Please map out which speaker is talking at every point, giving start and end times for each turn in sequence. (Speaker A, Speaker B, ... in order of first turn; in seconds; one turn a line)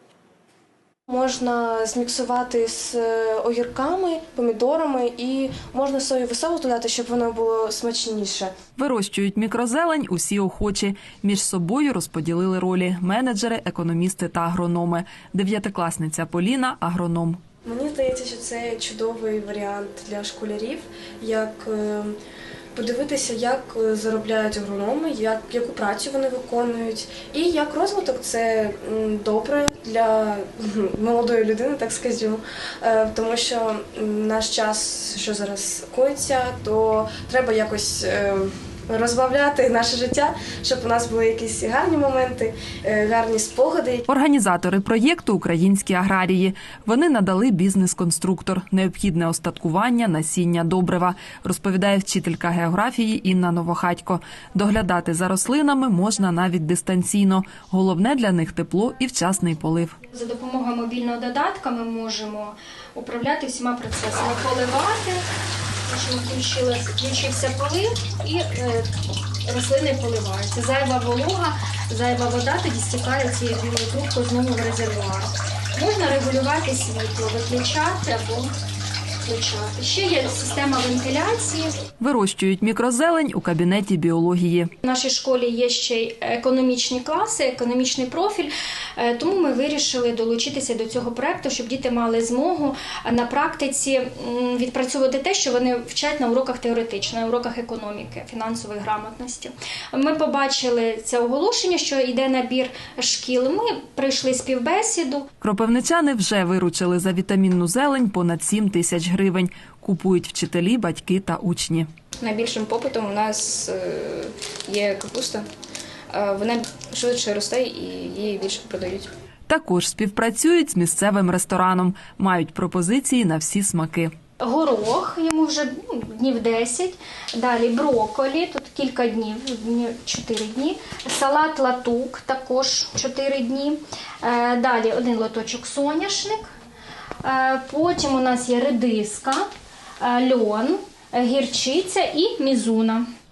Speaker A: 1.1-8.5
Speaker B: 8.8-17.4
Speaker A: 17.6-22.1
Speaker A: 22.7-44.0
Speaker B: 44.1-60.0
Speaker C: 60.1-65.2
Speaker C: 65.8-68.9
Speaker C: 69.4-78.5
Speaker C: 79.2-81.8
Speaker B: 82.0-84.7
Speaker C: 84.8-105.3
Speaker B: 105.4-111.9
Speaker D: 112.2-115.5
Speaker D: 116.1-119.1
Speaker B: 119.5-124.1
Speaker C: 124.4-136.5
Speaker C: 137.2-139.4
Speaker C: 140.0-143.1